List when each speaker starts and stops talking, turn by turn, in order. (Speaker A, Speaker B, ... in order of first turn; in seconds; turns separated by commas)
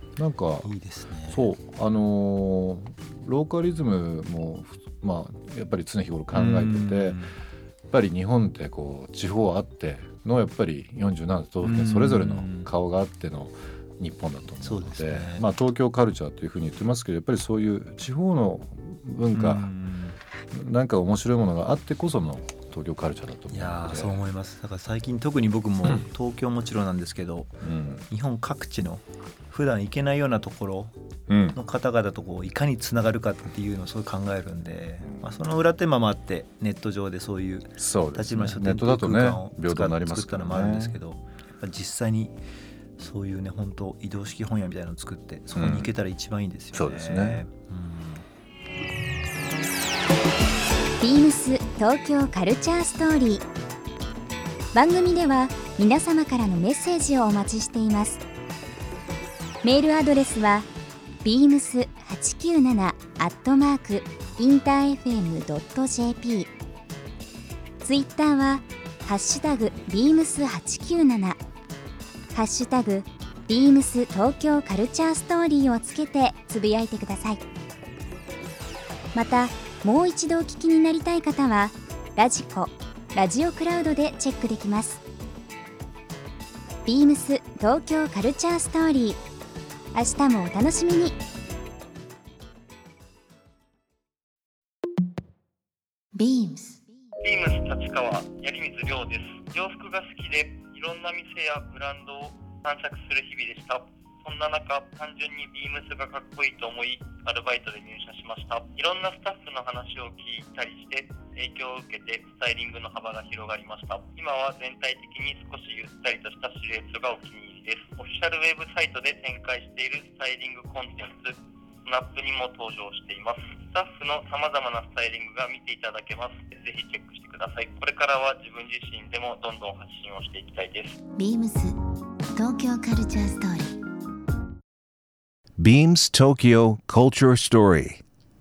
Speaker A: 0.2-0.7, Speaker B: 0.6-1.5, Speaker A: 1.3-7.2, Speaker B: 6.3-7.3, Speaker A: 7.9-19.7, Speaker B: 11.6-12.7, Speaker B: 14.6-15.5, Speaker B: 19.3-20.2, Speaker A: 20.5-24.2, Speaker B: 23.5-27.6, Speaker A: 27.6-28.1, Speaker B: 28.1-30.9, Speaker A: 31.3-31.6, Speaker B: 31.5-42.4, Speaker A: 35.0-35.3, Speaker A: 37.8-41.0, Speaker B: 43.0-48.2, Speaker A: 45.5-45.9, Speaker A: 46.7-47.4, Speaker C: 51.0-53.5, Speaker C: 54.7-58.2, Speaker C: 59.6-60.7, Speaker C: 61.2-66.5, Speaker C: 67.8-71.4, Speaker C: 72.3-77.4, Speaker C: 79.1-85.0, Speaker C: 86.9-89.2, Speaker C: 89.9-91.2, Speaker D: 96.1-96.8, Speaker E: 97.2-130.9, Speaker D: 131.2-131.8, Speaker D: 132.3-133.8, Speaker F: 135.6-138.0